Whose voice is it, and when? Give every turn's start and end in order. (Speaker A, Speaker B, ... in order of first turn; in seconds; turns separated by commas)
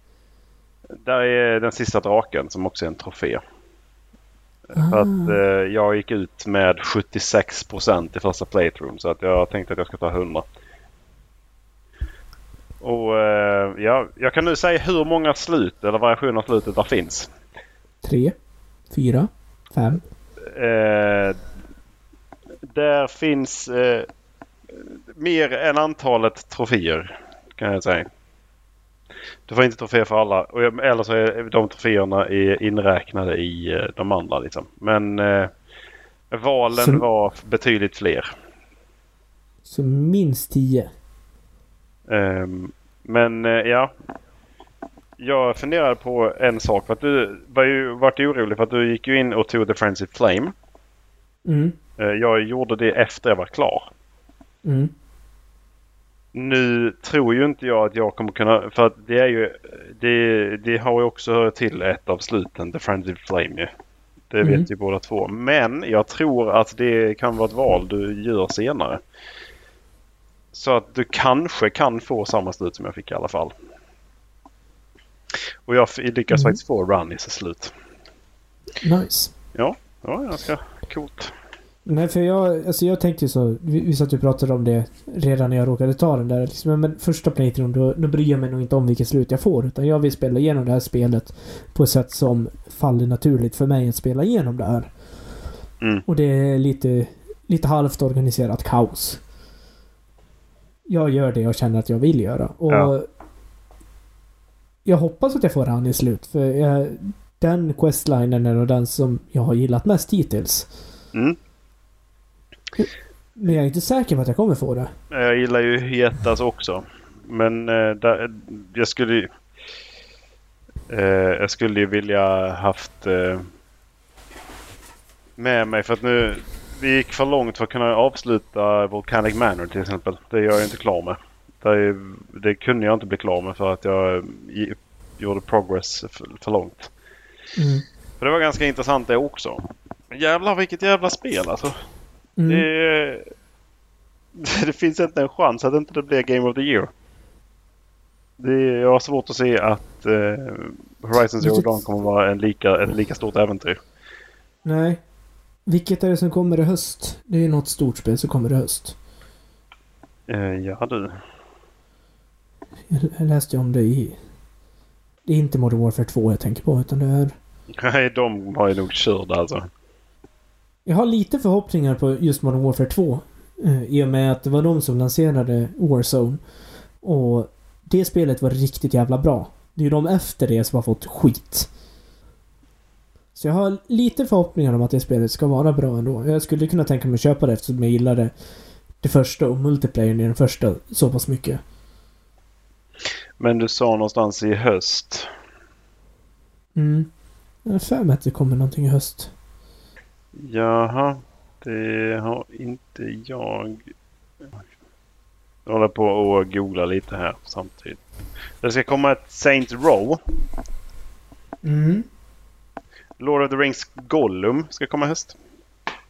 Speaker A: 1.0-3.4, Speaker A: 4.7-10.5, Speaker B: 4.8-5.4, Speaker A: 12.8-17.3, Speaker B: 18.0-18.4, Speaker B: 18.9-20.0, Speaker A: 20.4-21.4, Speaker A: 22.7-24.1, Speaker A: 24.8-28.1, Speaker A: 29.5-35.5, Speaker A: 36.3-38.3, Speaker B: 36.8-37.0, Speaker B: 39.7-40.9, Speaker A: 42.1-43.9, Speaker A: 45.2-50.5, Speaker B: 51.5-51.8, Speaker A: 52.0-53.9, Speaker B: 54.6-54.9, Speaker A: 56.3-63.7, Speaker A: 64.3-69.0, Speaker B: 64.4-64.7, Speaker A: 70.5-73.5, Speaker A: 75.7-77.7, Speaker B: 76.3-76.6, Speaker B: 78.8-79.3, Speaker A: 79.5-81.3, Speaker B: 81.9-94.9, Speaker B: 96.1-99.2, Speaker B: 100.9-103.1, Speaker B: 104.8-110.7, Speaker B: 112.8-114.9, Speaker A: 115.1-119.3, Speaker A: 120.9-123.5, Speaker A: 125.4-136.9, Speaker B: 137.6-137.8, Speaker A: 138.2-141.8, Speaker B: 142.4-142.7, Speaker A: 142.5-143.2, Speaker A: 144.4-146.9, Speaker A: 148.4-153.8, Speaker B: 151.4-151.7, Speaker B: 154.7-155.0, Speaker B: 155.7-158.9, Speaker A: 160.3-161.2, Speaker B: 162.9-164.2, Speaker B: 165.2-167.3, Speaker A: 167.8-169.7, Speaker B: 170.9-176.4, Speaker B: 177.0-181.7, Speaker B: 183.3-188.3, Speaker B: 189.0-191.6, Speaker A: 193.4-195.3, Speaker B: 196.8-197.1, Speaker B: 197.7-199.3, Speaker A: 200.3-203.8, Speaker A: 205.7-208.0, Speaker A: 208.6-210.2, Speaker B: 211.6-212.1, Speaker A: 213.2-215.4